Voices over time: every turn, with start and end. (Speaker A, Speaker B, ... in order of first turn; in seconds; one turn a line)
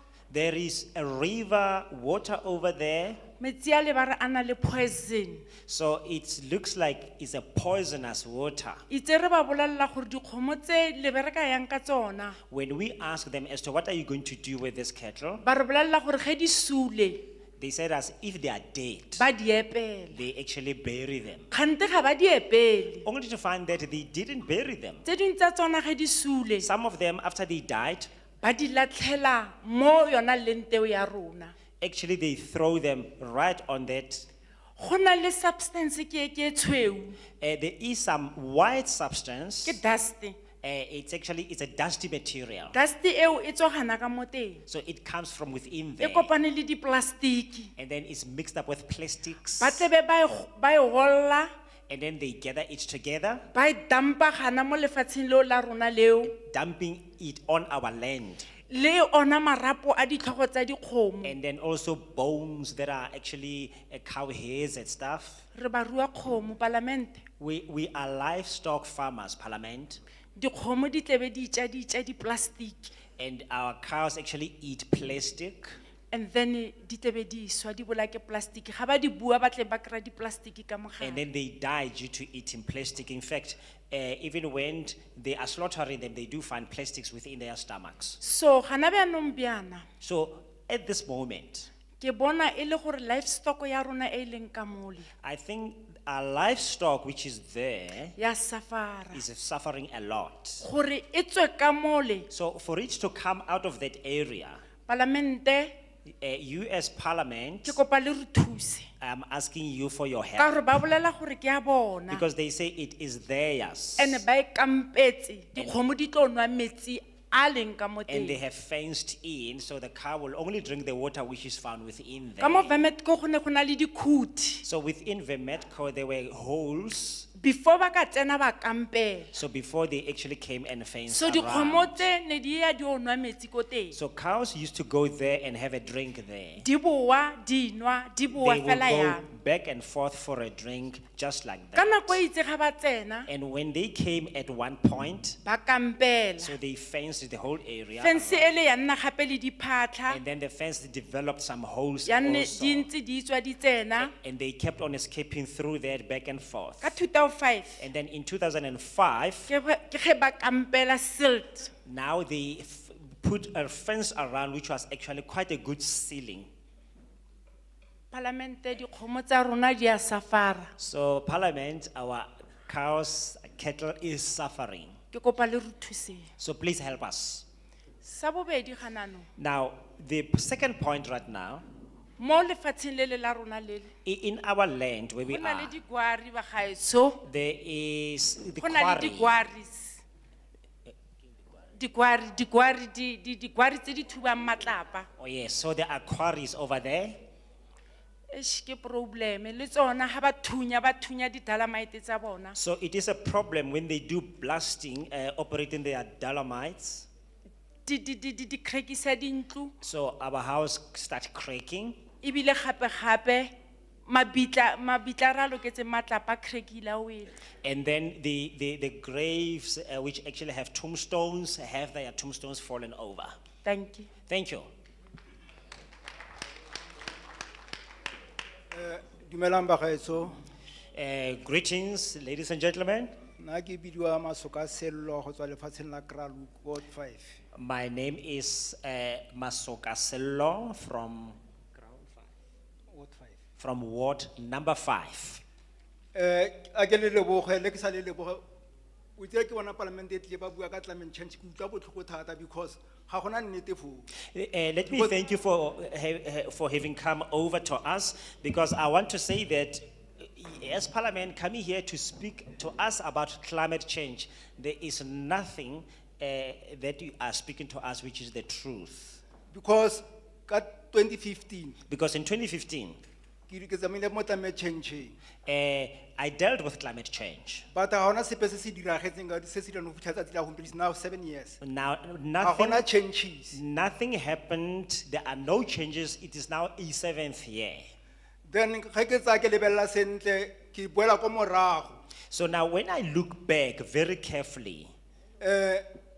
Speaker A: 0.3-3.2
Speaker B: 3.4-5.5
Speaker A: 5.7-8.8
Speaker B: 8.9-12.4
Speaker A: 12.5-15.4
Speaker B: 15.4-17.2
Speaker A: 17.6-19.2
Speaker B: 19.1-20.2
Speaker A: 20.1-21.5
Speaker B: 21.5-23.1
Speaker A: 23.0-25.0
Speaker B: 25.0-26.7
Speaker A: 26.6-28.1
Speaker B: 28.4-31.5
Speaker A: 31.8-34.3
Speaker B: 34.8-37.2
Speaker A: 37.4-39.8
Speaker B: 39.6-40.4
Speaker A: 40.6-42.8
Speaker B: 42.7-44.6
Speaker A: 44.7-46.3
Speaker B: 46.0-47.7
Speaker A: 47.8-49.9
Speaker B: 49.6-51.5
Speaker A: 51.9-53.5
Speaker B: 53.5-56.3
Speaker A: 56.2-58.5
Speaker B: 58.7-61.3
Speaker A: 61.2-65.4
Speaker B: 65.5-67.2
Speaker A: 67.4-70.0
Speaker B: 70.3-72.9
Speaker A: 73.2-75.8
Speaker B: 76.1-81.2
Speaker A: 81.0-88.2
Speaker B: 88.2-89.9
Speaker A: 90.0-91.7
Speaker B: 92.0-95.1
Speaker A: 95.2-98.1
Speaker B: 98.2-99.2
Speaker A: 99.1-100.7
Speaker B: 100.6-102.3
Speaker A: 102.3-104.6
Speaker B: 104.9-105.7
Speaker A: 106.0-107.8
Speaker B: 107.6-108.9
Speaker A: 109.0-110.8
Speaker B: 110.4-112.2
Speaker A: 112.1-114.2
Speaker B: 114.0-118.4
Speaker A: 118.1-122.8
Speaker B: 122.4-124.6
Speaker A: 124.6-127.3
Speaker B: 127.3-129.3
Speaker A: 129.3-132.1
Speaker B: 131.1-133.9
Speaker A: 133.9-136.7
Speaker B: 136.6-139.2
Speaker A: 138.3-142.2
Speaker B: 141.7-143.3
Speaker A: 143.3-145.4
Speaker B: 145.4-146.5
Speaker A: 146.4-148.5
Speaker B: 148.0-150.2
Speaker A: 150.1-152.9
Speaker B: 152.1-154.1
Speaker A: 154.0-157.0
Speaker B: 156.8-157.8
Speaker A: 157.8-159.5
Speaker B: 159.5-161.7
Speaker A: 161.8-166.5
Speaker B: 168.1-170.7
Speaker A: 170.8-175.0
Speaker B: 175.1-176.3
Speaker A: 176.4-177.4
Speaker B: 178.0-179.3
Speaker A: 179.4-181.6
Speaker B: 182.2-183.9
Speaker A: 184.0-185.8
Speaker B: 185.2-187.2
Speaker A: 187.2-189.4
Speaker B: 188.6-190.0
Speaker B: 191.8-195.1
Speaker A: 195.2-197.2
Speaker B: 198.3-202.6
Speaker A: 202.6-207.1
Speaker B: 207.8-209.7
Speaker A: 209.8-212.0
Speaker B: 212.2-213.5
Speaker B: 214.1-217.3
Speaker A: 217.6-223.3
Speaker B: 223.6-224.1
Speaker A: 224.3-224.7
Speaker C: 228.7-230.3
Speaker A: 230.9-233.1
Speaker C: 233.4-237.3
Speaker A: 237.5-242.1
Speaker C: 242.9-243.3
Speaker A: 243.6-245.4
Speaker C: 246.1-248.4
Speaker C: 249.2-254.1
Speaker A: 254.3-269.2
Speaker C: 269.5-271.8
Speaker A: 271.9-273.0
Speaker C: 273.5-275.1
Speaker A: 275.4-277.6
Speaker C: 277.7-281.6
Speaker A: 281.6-282.9
Speaker C: 282.4-283.6
Speaker A: 283.5-287.9
Speaker C: 288.4-292.0
Speaker A: 292.3-294.9
Speaker C: 295.4-295.8